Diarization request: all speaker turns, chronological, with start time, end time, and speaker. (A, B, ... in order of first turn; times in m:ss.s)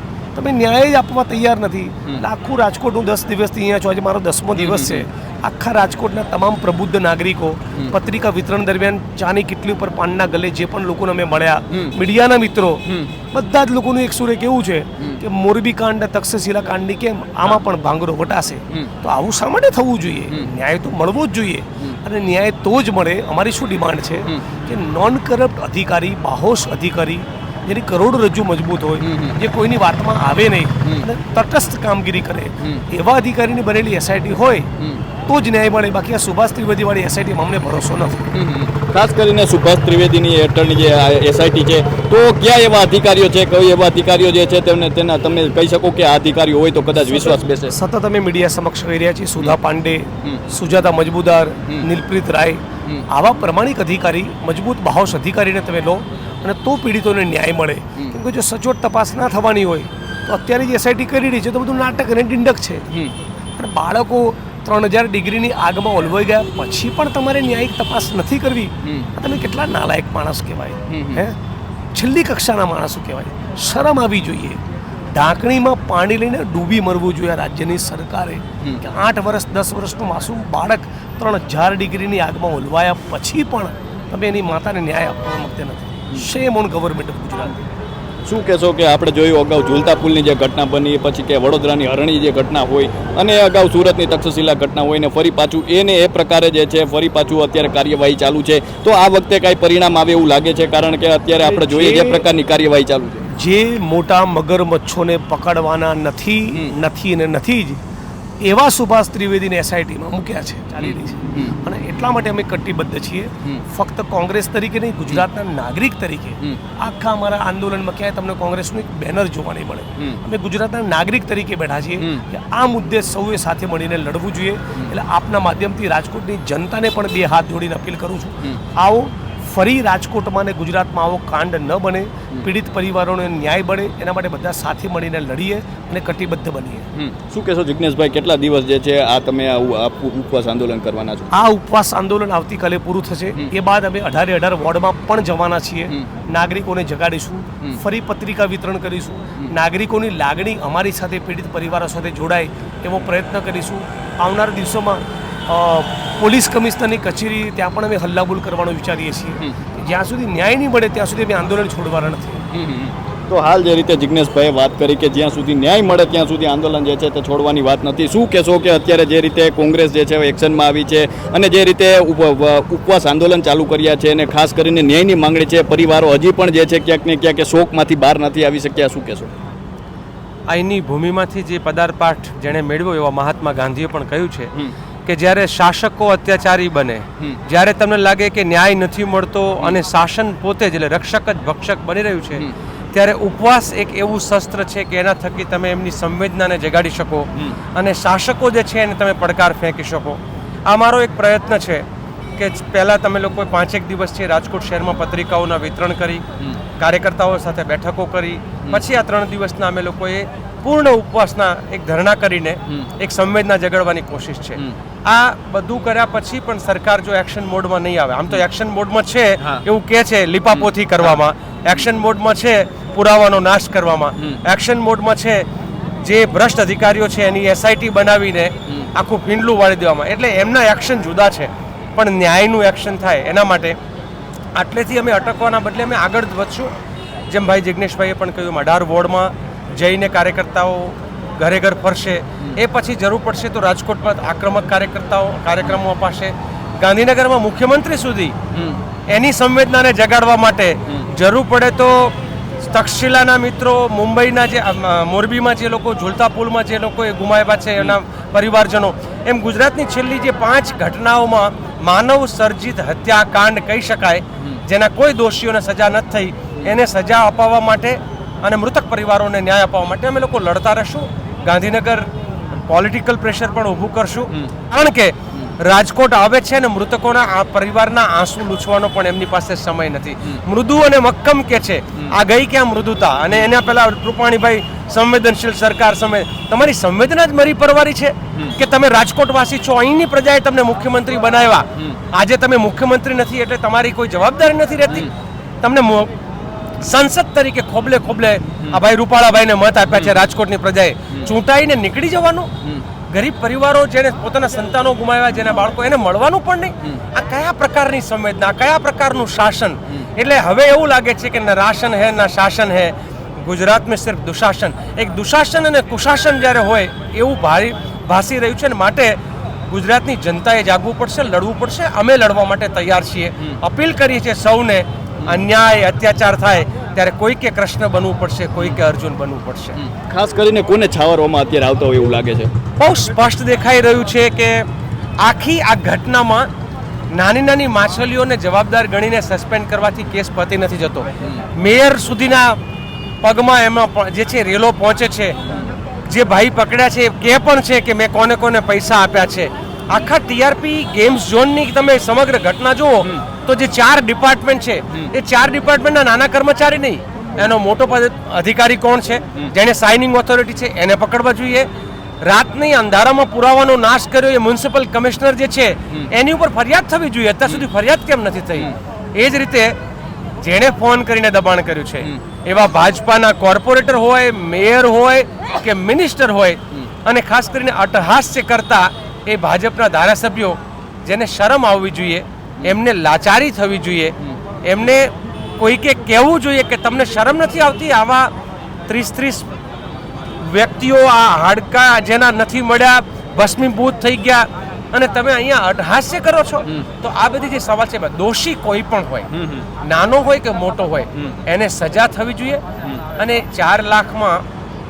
0:00.3-0:34.7 A
0:04.6-0:05.0 B
0:29.0-0:29.4 B
0:35.2-0:38.2 A
0:38.3-0:47.8 B
0:47.1-1:02.8 A
1:03.6-1:11.4 A
1:10.9-1:11.2 B
1:11.9-1:14.6 A
1:15.1-1:27.6 A
1:28.2-1:43.2 B
1:41.5-1:42.2 A
1:43.3-1:47.8 A
1:48.4-2:16.9 A
1:50.8-1:51.5 B
2:02.0-2:02.2 B
2:17.0-2:21.3 B
2:21.3-2:42.4 A
2:42.5-2:59.3 B
3:00.5-3:04.5 C
3:05.0-3:21.8 C
3:22.4-3:26.2 C
3:26.8-3:45.4 C
3:40.5-3:41.9 B
3:46.0-3:53.8 C
3:54.5-3:56.7 C
3:57.3-4:08.3 C
4:09.1-4:55.1 C
4:55.6-4:56.1 C
4:56.8-5:02.5 C
5:03.1-5:19.2 C
5:19.7-5:29.8 C
5:28.6-5:28.8 B
5:29.8-5:32.5 B
5:32.8-5:34.6 C
5:35.2-5:36.5 C
5:37.1-5:42.6 C
5:43.2-5:45.4 C
5:46.0-6:01.7 C
6:02.2-6:09.7 C
6:10.4-6:28.3 C
6:28.9-6:29.4 C
6:30.4-6:39.3 C
6:39.3-6:39.6 B
6:39.8-6:42.6 C
6:43.2-6:44.4 C